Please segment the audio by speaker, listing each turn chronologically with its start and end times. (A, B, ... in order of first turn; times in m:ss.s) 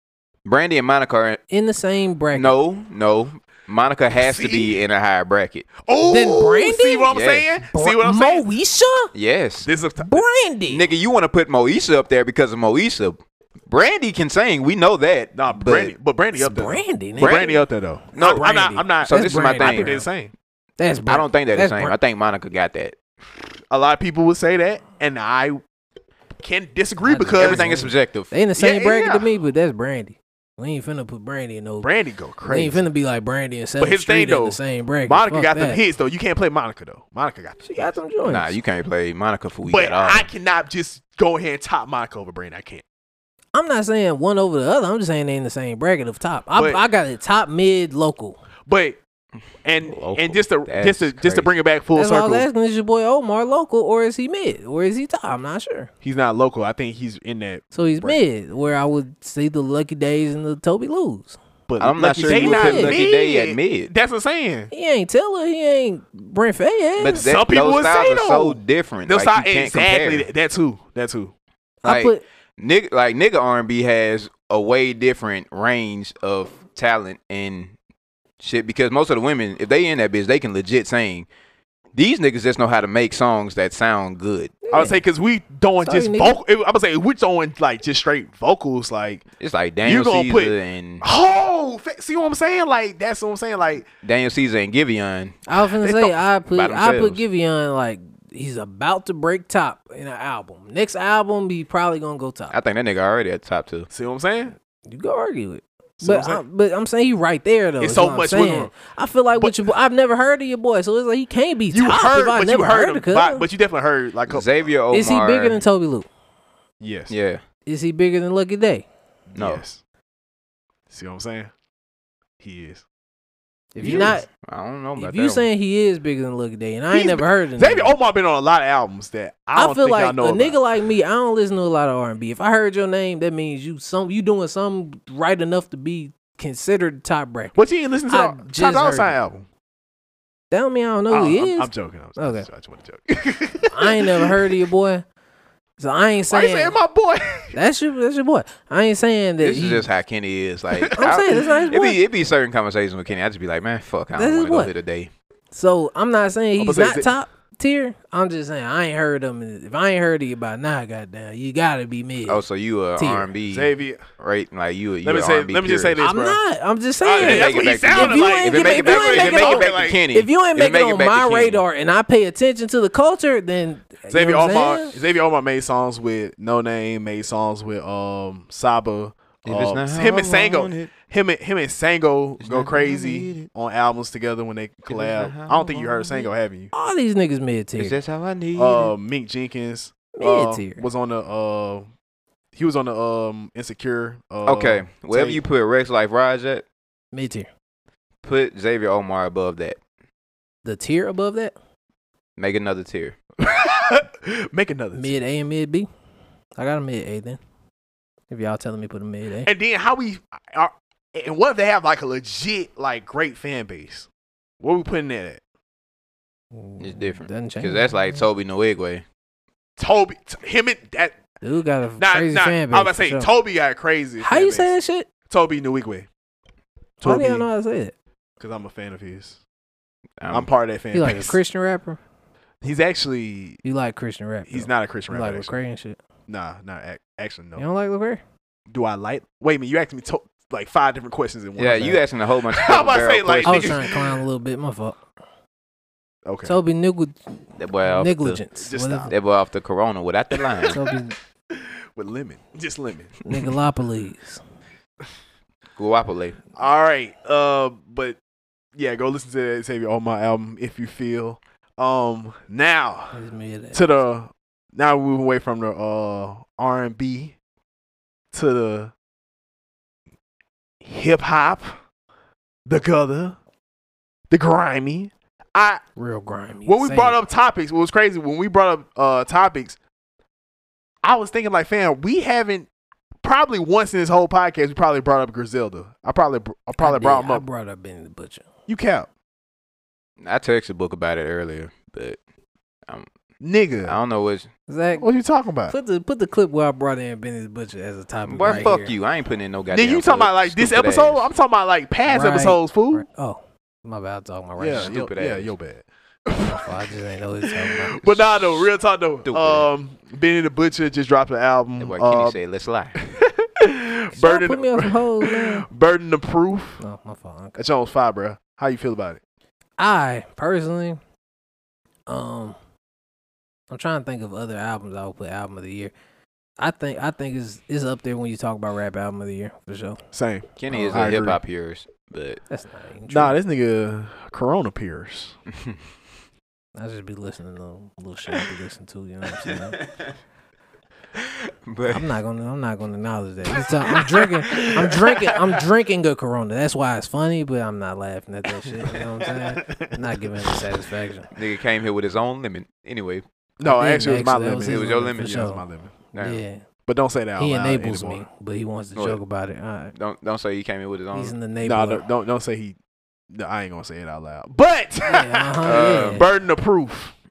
0:00.4-0:01.4 A
0:01.5-0:02.5 B
0:02.3-0:05.7 A
0:04.1-0:04.8 C
0:05.8-0:08.4 C
0:06.0-0:07.1 B
0:07.1-0:07.5 A
0:07.6-0:09.1 B
0:09.1-0:09.7 A
0:09.6-0:10.2 C
0:10.0-0:10.8 B
0:10.7-0:15.9 A
0:15.3-0:20.3 C
0:16.4-0:17.6 B
0:17.2-0:17.6 A
0:18.1-0:20.0 A
0:18.1-0:20.0 B
0:20.8-0:21.9 B
0:21.1-0:23.0 A
0:23.7-0:25.6 C
0:26.4-0:27.7 C
0:27.0-0:31.9 B
0:27.3-0:28.3 A
0:28.6-0:29.3 C
0:31.8-0:32.8 C
0:32.5-0:35.8 B
0:33.8-0:38.0 C
0:37.6-0:38.6 B
0:38.2-0:40.3 A
0:39.6-0:42.8 C
0:43.5-0:48.4 B
0:46.5-0:46.8 C
0:48.6-0:49.0 C
0:49.6-0:52.4 C
0:49.8-0:51.5 A
0:51.9-0:55.9 B
0:56.0-0:58.2 C
0:57.7-1:01.4 B
1:01.7-1:04.7 C
1:01.8-1:03.9 A
1:02.2-1:03.0 B
1:04.7-1:07.3 B
1:07.0-1:10.3 A
1:07.2-1:11.3 C
1:11.8-1:12.2 B
1:11.8-1:17.7 A
1:18.4-1:21.3 A
1:21.9-1:24.6 A
1:24.6-1:25.0 B
1:24.7-1:29.2 C
1:25.8-1:26.4 B
1:29.4-1:31.0 A
1:29.8-1:33.8 C
1:34.0-1:35.4 A
1:35.5-1:42.6 B
1:35.8-1:36.2 C
1:36.5-1:37.2 A
1:42.5-1:43.9 A
1:43.9-1:44.6 C
1:44.9-1:53.4 B
1:46.0-1:46.4 C
1:47.8-1:48.7 C
1:51.7-1:54.5 C
1:54.3-1:55.6 A
1:54.9-1:56.1 B
1:56.8-1:57.1 C
1:57.1-1:57.4 A
1:57.6-1:58.8 B
1:59.3-1:59.8 C
1:59.3-1:59.6 A
2:00.9-2:01.5 C
2:02.4-2:02.8 C
2:03.7-2:04.3 B
2:03.8-2:04.2 C
2:03.8-2:05.5 A
2:05.0-2:08.0 B
2:06.9-2:10.6 C
2:09.5-2:17.6 B
2:17.5-2:19.4 C
2:18.1-2:19.2 B
2:20.5-2:22.4 B
2:21.1-2:24.5 C
2:23.7-2:25.0 B
2:25.8-2:26.8 B
2:26.3-2:27.6 C
2:27.5-2:29.9 B
2:29.4-2:35.1 A
2:30.7-2:31.6 C
2:31.0-2:32.0 B
2:34.1-2:34.7 B
2:35.5-2:42.4 B
2:36.6-2:37.1 C
2:42.3-2:46.0 A
2:43.0-2:43.3 B
2:43.5-2:44.0 C
2:45.0-2:46.4 C
2:46.0-2:55.0 B
2:47.0-2:50.0 C
2:47.2-2:51.6 A
2:54.1-3:06.7 C
2:59.4-3:00.9 A
3:02.4-3:03.5 A
3:04.9-3:06.3 A
3:06.7-3:08.0 B
3:07.8-3:08.9 A
3:08.6-3:11.8 C
3:10.1-3:10.8 B
3:12.5-3:15.4 C
3:14.4-3:16.6 A
3:17.1-3:17.5 B
3:18.2-3:19.8 A
3:20.6-3:21.5 B
3:22.4-3:23.2 A
3:23.4-3:25.1 C
3:24.9-3:25.9 B
3:26.6-3:27.4 B
3:28.3-3:29.5 B
3:29.4-3:34.1 C
3:34.6-3:35.4 C
3:36.5-3:38.2 B
3:36.8-3:39.0 A
3:39.8-3:41.2 C
3:41.4-3:43.3 B
3:42.0-3:44.7 C
3:44.2-3:45.1 B
3:45.3-3:46.1 C
3:47.0-3:47.5 C
3:47.0-3:47.9 B
3:48.4-3:49.4 C
3:50.2-3:50.5 A
3:50.3-3:51.4 C
3:50.9-3:52.0 B
3:52.6-3:53.6 C
3:53.6-3:56.0 B
3:54.4-3:55.5 C
3:56.3-3:57.6 C
3:57.6-3:58.2 B
3:58.7-4:04.0 C
4:01.6-4:03.9 A
4:03.4-4:05.0 B
4:06.2-4:06.6 C
4:06.4-4:07.3 B
4:07.6-4:08.4 A
4:07.8-4:09.1 B
4:08.6-4:09.1 C
4:09.0-4:10.8 A
4:10.3-4:10.9 C
4:10.7-4:11.2 B
4:11.5-4:13.2 C
4:13.2-4:14.4 B
4:15.8-4:16.4 A
4:16.6-4:18.2 C
4:18.7-4:23.2 C
4:23.1-4:24.0 B
4:23.7-4:27.3 C
4:28.3-4:28.9 C
4:30.8-4:31.8 C
4:32.6-4:33.4 C
4:34.3-4:35.8 C
4:36.0-4:37.2 B
4:36.6-4:39.8 C
4:41.0-4:42.7 C
4:43.2-4:47.4 C
4:46.8-4:48.4 B
4:48.7-4:49.1 C
4:50.2-4:52.2 A
4:53.4-4:54.0 C
4:53.8-4:54.5 A
4:54.7-4:55.0 B
4:55.0-4:55.7 C
4:55.7-4:58.9 B
4:58.3-5:01.3 A
4:59.7-5:03.0 C
5:02.1-5:04.9 B
5:04.6-5:06.9 C
5:04.7-5:05.5 A
5:06.4-5:08.2 B
5:07.4-5:12.4 C
5:09.2-5:09.7 A
5:11.8-5:13.0 A
5:13.0-5:16.8 C
5:14.1-5:15.6 B
5:16.8-5:17.6 B
5:17.6-5:19.2 C
5:19.8-5:21.0 B
5:22.1-5:22.6 B
5:23.7-5:25.9 B
5:26.6-5:30.0 B
5:30.1-5:31.4 C
5:30.6-5:32.4 A
5:32.5-5:33.4 B
5:33.1-5:35.4 C
5:36.8-5:39.8 B
5:39.4-5:40.1 A
5:41.1-5:42.1 A
5:41.9-5:51.3 B
5:43.9-5:45.2 C
5:43.9-5:44.9 A
5:48.9-5:50.6 C
5:51.3-5:53.2 A
5:53.6-5:56.0 C
5:53.6-5:56.6 B
5:54.7-5:55.4 A
5:56.1-5:56.4 A
5:56.9-5:58.2 C
5:57.4-5:59.9 B
5:59.9-6:01.4 A
6:01.1-6:02.0 B
6:01.6-6:02.8 C
6:03.3-6:07.1 C
6:05.1-6:06.3 B
6:05.6-6:06.3 A